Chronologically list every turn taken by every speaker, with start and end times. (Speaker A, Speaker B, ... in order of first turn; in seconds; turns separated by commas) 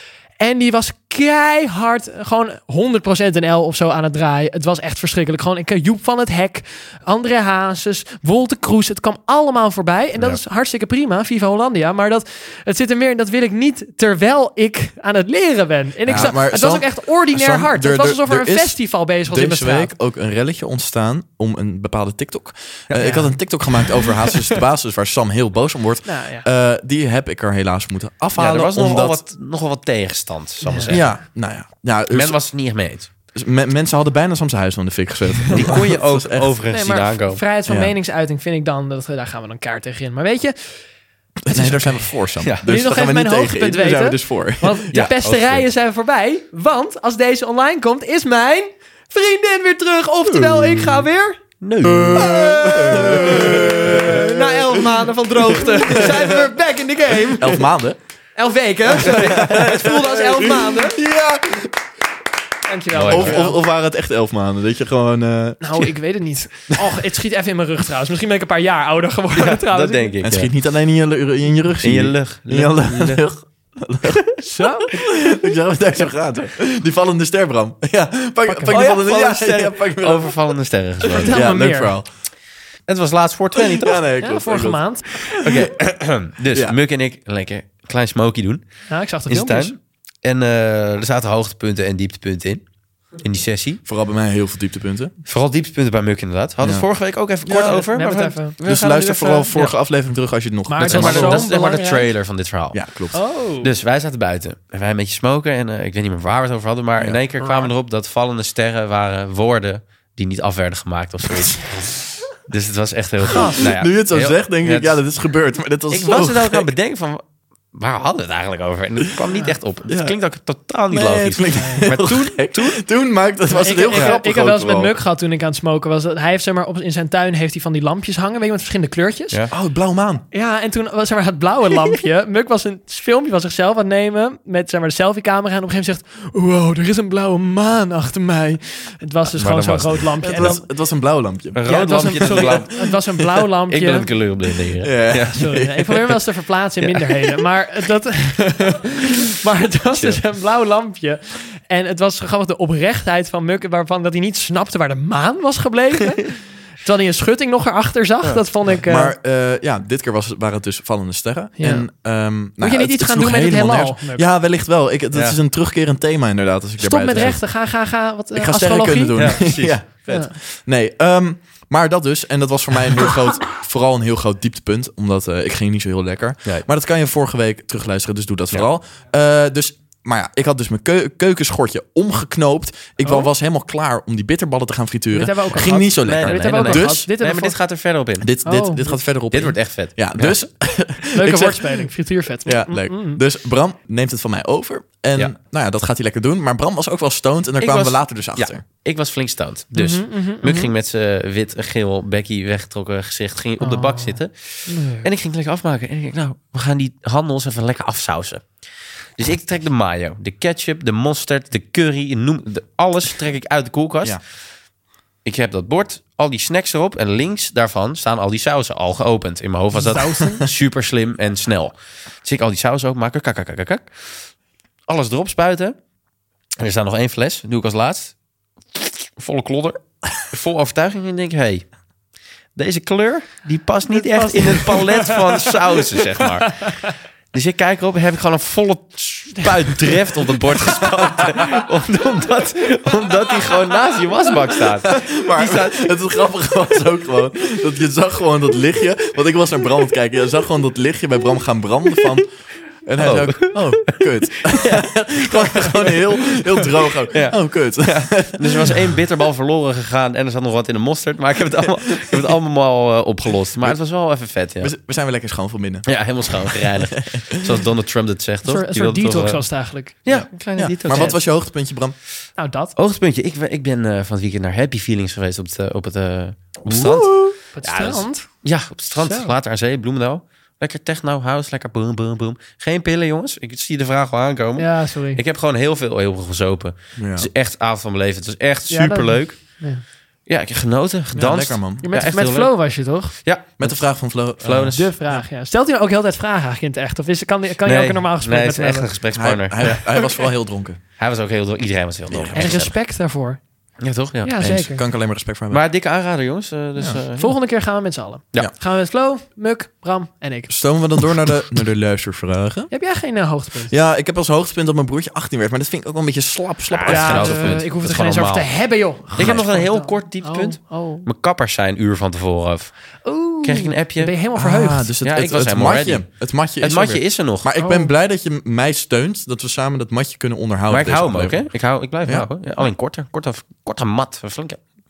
Speaker A: 0.4-19.9, Speaker B: 16.1-29.2, Speaker A: 23.0-23.3, Speaker A: 26.0-26.4, Speaker C: 28.4-31.3, Speaker A: 30.6-30.9, Speaker B: 30.9-32.4, Speaker C: 32.1-33.1, Speaker B: 33.3-36.5, Speaker C: 35.5-37.4, Speaker A: 36.7-40.8, Speaker B: 37.7-37.9, Speaker B: 41.4-44.9, Speaker A: 41.5-42.1, Speaker A: 42.6-51.4, Speaker C: 44.9-45.6, Speaker C: 51.6-53.7, Speaker B: 51.8-54.7, Speaker A: 52.2-57.7, Speaker B: 55.4-56.5, Speaker B: 57.4-58.0, Speaker A: 58.4-61.0, Speaker B: 59.0-61.7, Speaker A: 62.7-63.6, Speaker C: 62.9-63.4, Speaker B: 62.9-65.7, Speaker A: 65.6-70.1, Speaker C: 69.3-70.5, Speaker B: 70.2-74.2, Speaker C: 71.8-73.3, Speaker A: 74.4-75.1, Speaker B: 74.9-80.4, Speaker A: 78.5-78.8, Speaker C: 78.7-81.4, Speaker A: 81.1-82.0, Speaker B: 81.2-82.1, Speaker C: 82.9-84.0, Speaker B: 83.5-85.7, Speaker A: 84.2-85.0, Speaker C: 85.3-88.6, Speaker B: 86.5-86.8, Speaker A: 88.9-89.7, Speaker C: 89.3-92.6, Speaker C: 93.2-93.8, Speaker B: 93.8-95.1, Speaker C: 95.2-99.7, Speaker B: 96.6-96.9, Speaker B: 97.5-97.8, Speaker A: 97.5-98.5, Speaker B: 98.6-101.5, Speaker A: 100.7-102.1, Speaker C: 100.8-102.8, Speaker B: 102.7-103.2, Speaker A: 103.1-103.7, Speaker C: 103.6-115.0, Speaker A: 107.4-107.7, Speaker A: 113.3-113.6, Speaker B: 113.4-116.7, Speaker C: 115.9-122.8, Speaker B: 119.9-120.2, Speaker B: 120.9-124.9, Speaker A: 121.5-121.8, Speaker A: 123.5-129.4, Speaker C: 123.9-124.2, Speaker B: 129.5-130.2, Speaker A: 130.3-140.7, Speaker C: 139.4-140.6, Speaker B: 140.2-141.6, Speaker C: 141.5-143.0, Speaker A: 141.7-144.1, Speaker B: 142.1-142.6, Speaker C: 143.7-145.4, Speaker B: 144.8-146.2, Speaker A: 145.2-159.1, Speaker C: 149.9-150.2, Speaker B: 158.8-167.6, Speaker A: 161.6-161.9, Speaker A: 162.6-164.2, Speaker C: 165.1-165.4, Speaker A: 166.8-169.4, Speaker B: 168.3-187.1, Speaker C: 169.2-170.1, Speaker A: 170.1-170.3, Speaker A: 185.1-187.6, Speaker C: 185.6-188.3, Speaker B: 188.2-191.9, Speaker A: 188.4-189.0, Speaker C: 189.3-190.4, Speaker A: 191.2-193.2, Speaker B: 192.5-198.6, Speaker C: 197.6-208.5, Speaker A: 199.8-200.7, Speaker A: 203.6-205.1, Speaker C: 209.2-214.2, Speaker C: 215.2-224.2, Speaker A: 219.7-220.4, Speaker C: 224.9-225.8, Speaker C: 226.6-228.1, Speaker C: 228.7-231.7, Speaker C: 232.5-245.9, Speaker A: 233.9-235.2, Speaker B: 244.9-252.3, Speaker B: 252.8-258.8, Speaker C: 253.0-256.4, Speaker C: 257.1-264.7, Speaker B: 264.6-267.6, Speaker C: 265.9-269.4, Speaker A: 268.4-270.0, Speaker C: 270.0-271.1, Speaker B: 270.1-272.0, Speaker A: 270.9-271.2, Speaker A: 272.4-272.7, Speaker C: 272.8-289.6, Speaker B: 276.6-277.3, Speaker A: 277.5-278.3, Speaker A: 278.9-279.3, Speaker A: 284.6-285.2, Speaker B: 287.0-287.3, Speaker A: 288.7-289.8, Speaker C: 290.3-294.9, Speaker B: 291.1-291.8, Speaker A: 291.8-293.1, Speaker B: 293.6-294.8, Speaker A: 294.7-298.9, Speaker C: 297.6-300.1, Speaker B: 299.1-300.8, Speaker C: 301.0-302.7, Speaker B: 302.1-302.6, Speaker A: 302.3-303.4, Speaker C: 303.8-304.4, Speaker A: 304.2-304.8, Speaker B: 304.4-305.6, Speaker C: 305.5-307.3, Speaker A: 307.2-310.5, Speaker B: 310.5-312.7, Speaker A: 312.7-313.7, Speaker B: 313.7-317.6, Speaker C: 316.7-322.8, Speaker A: 316.9-321.1, Speaker B: 319.2-319.5, Speaker A: 323.0-324.9, Speaker C: 323.4-324.1, Speaker B: 324.4-331.5, Speaker C: 325.0-327.5, Speaker A: 327.6-327.9, Speaker C: 330.7-334.6, Speaker B: 332.0-332.3